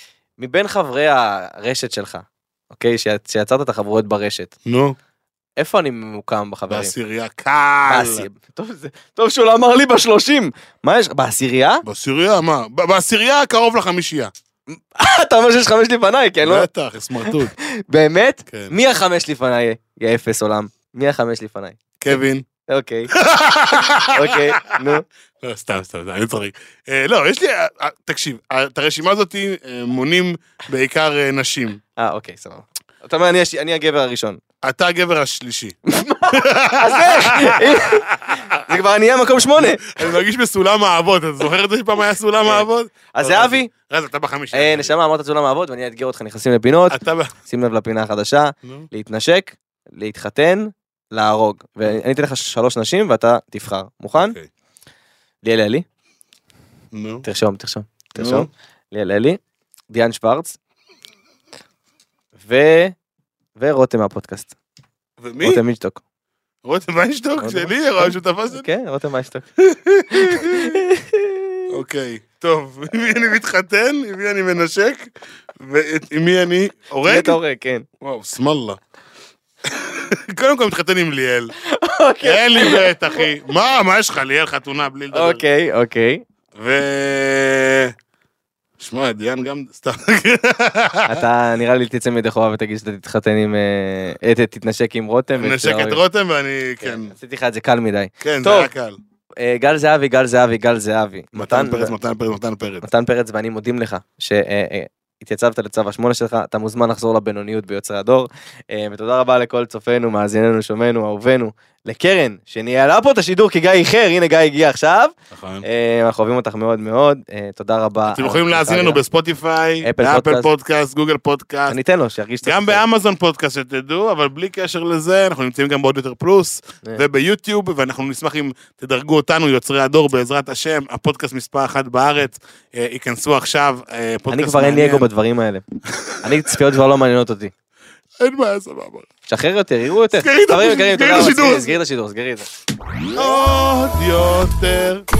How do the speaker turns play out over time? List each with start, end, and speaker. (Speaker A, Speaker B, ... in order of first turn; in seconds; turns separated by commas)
Speaker A: 0.4-4.5, Speaker B: 4.7-5.0, Speaker A: 5.6-6.9, Speaker B: 6.7-8.3, Speaker A: 7.8-11.8, Speaker B: 11.8-14.3, Speaker A: 14.7-16.7, Speaker B: 16.4-17.5, Speaker A: 17.2-21.8, Speaker B: 18.5-18.7, Speaker B: 22.0-22.4, Speaker A: 22.7-23.1, Speaker B: 23.1-31.8, Speaker A: 24.0-25.0, Speaker A: 32.0-34.4, Speaker B: 34.6-35.8, Speaker A: 35.9-40.0, Speaker B: 36.3-38.7, Speaker B: 39.6-44.9, Speaker A: 42.4-43.7, Speaker A: 44.5-54.4, Speaker B: 46.9-47.3, Speaker B: 54.2-54.5, Speaker A: 55.4-55.8, Speaker B: 56.9-57.2, Speaker A: 57.2-59.4, Speaker B: 58.1-58.5, Speaker A: 59.9-60.6, Speaker A: 62.4-63.0, Speaker A: 63.5-64.5, Speaker B: 65.2-65.6, Speaker A: 65.4-66.0, Speaker B: 66.6-68.7, Speaker A: 67.4-69.5, Speaker B: 69.6-70.9, Speaker A: 70.1-71.7, Speaker B: 71.7-77.4, Speaker A: 77.0-77.8, Speaker B: 78.0-78.8, Speaker B: 79.6-81.5, Speaker A: 81.6-83.2, Speaker B: 82.2-85.4, Speaker A: 85.1-86.2, Speaker B: 86.5-87.9, Speaker B: 88.8-91.2, Speaker A: 91.0-96.0, Speaker B: 95.3-97.1, Speaker A: 96.8-98.7, Speaker B: 98.2-99.0, Speaker A: 99.4-101.9, Speaker B: 101.3-102.9, Speaker A: 102.8-115.1, Speaker B: 115.3-115.7, Speaker A: 115.6-119.0, Speaker B: 118.1-121.8, Speaker A: 119.8-120.5, Speaker A: 121.7-122.8, Speaker B: 122.4-135.1, Speaker A: 134.3-135.6, Speaker B: 136.0-136.5, Speaker A: 136.2-137.5, Speaker B: 138.2-139.1, Speaker A: 139.3-142.5, Speaker B: 140.1-141.8, Speaker B: 143.1-145.1